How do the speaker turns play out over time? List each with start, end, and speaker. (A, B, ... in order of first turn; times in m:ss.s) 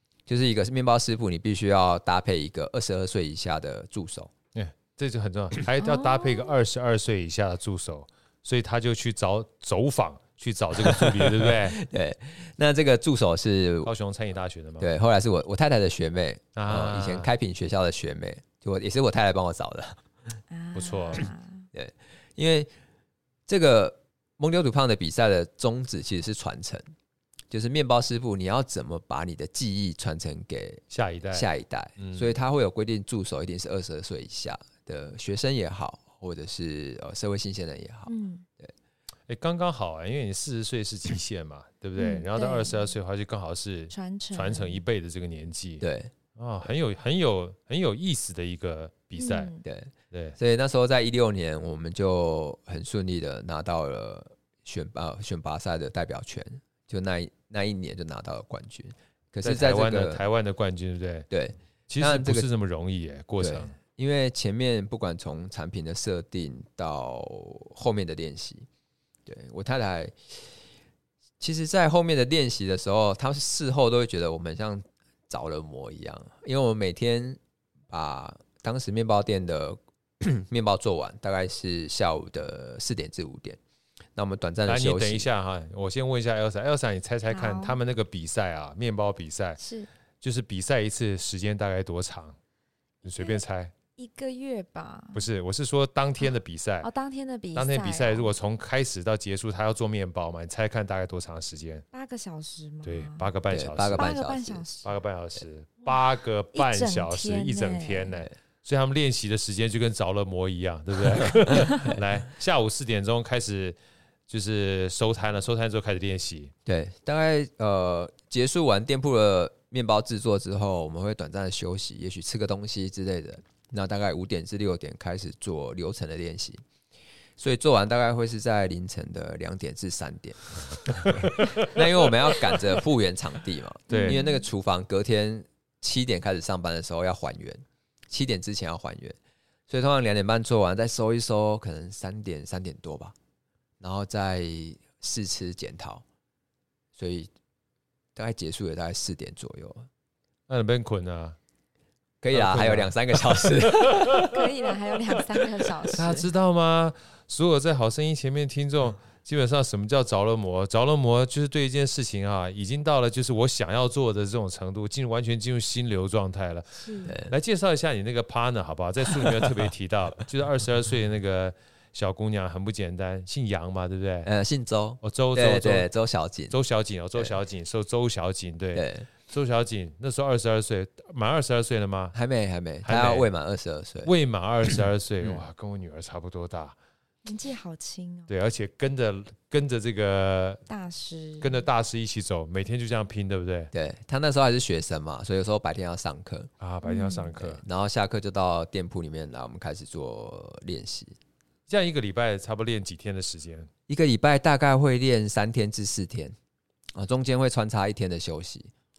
0:00.3-0:04.3 A
0:04.6-0:11.8 B
0:05.8-0:06.6 C
0:10.8-0:13.9 A
0:13.8-0:14.9 B
0:14.8-0:20.0 A
0:16.6-0:17.3 B
0:20.5-0:21.6 C
0:20.7-0:21.3 B
0:21.7-0:22.7 A
0:23.5-0:26.9 A
0:27.5-0:38.7 A
0:30.9-0:32.3 B
0:38.1-0:38.4 C
0:39.3-0:45.8 B
0:42.0-0:43.0 C
0:43.9-0:44.8 C
0:45.8-0:46.1 A
0:46.4-0:49.5 B
0:49.2-0:49.6 C
0:49.6-1:00.2 A
0:50.1-0:50.4 B
0:59.4-1:01.3 B
1:01.3-1:02.5 A
1:01.9-1:03.7 B
1:03.4-1:08.7 A
1:09.3-1:10.6 A
1:11.4-1:23.6 A
1:24.2-1:25.3 A
1:24.7-1:29.6 B
1:27.3-1:27.8 C
1:29.6-1:29.9 C
1:30.2-1:32.4 B
1:33.0-1:33.7 B
1:33.2-1:33.4 C
1:34.0-1:35.3 C
1:35.1-1:36.9 B
1:36.8-1:38.3 C
1:37.6-1:41.9 B
1:41.9-1:43.3 C
1:42.8-1:44.1 B
1:43.5-1:44.6 A
1:44.0-1:44.9 C
1:44.8-1:53.8 B
1:46.5-1:48.2 C
1:54.3-1:56.5 B
1:56.7-2:06.6 A
2:07.4-2:19.2 A
2:11.0-2:11.7 B
2:13.9-2:14.5 C
2:13.9-2:14.2 B
2:19.7-2:23.2 A
2:23.8-2:26.0 A
2:27.0-2:27.3 A
2:28.2-2:29.9 A
2:30.5-2:31.4 B
2:32.2-2:34.4 A
2:32.3-2:34.4 B
2:34.1-2:36.3 C
2:35.9-2:54.3 B
2:46.8-2:47.2 C
2:47.0-2:47.3 A
2:49.2-2:49.5 A
2:54.2-2:56.6 A
2:55.0-2:55.9 B
2:56.5-3:02.2 B
2:58.7-2:59.1 A
3:02.1-3:04.1 A
3:02.8-3:03.3 B
3:04.0-3:06.8 B
3:04.7-3:05.4 A
3:07.2-3:08.3 C
3:08.3-3:10.6 B
3:10.7-3:11.6 C
3:11.4-3:13.7 B
3:13.7-3:16.5 A
3:16.6-3:17.6 B
3:16.8-3:17.3 C
3:17.4-3:21.2 A
3:21.7-3:23.7 B
3:23.9-3:26.4 A
3:26.9-3:28.7 A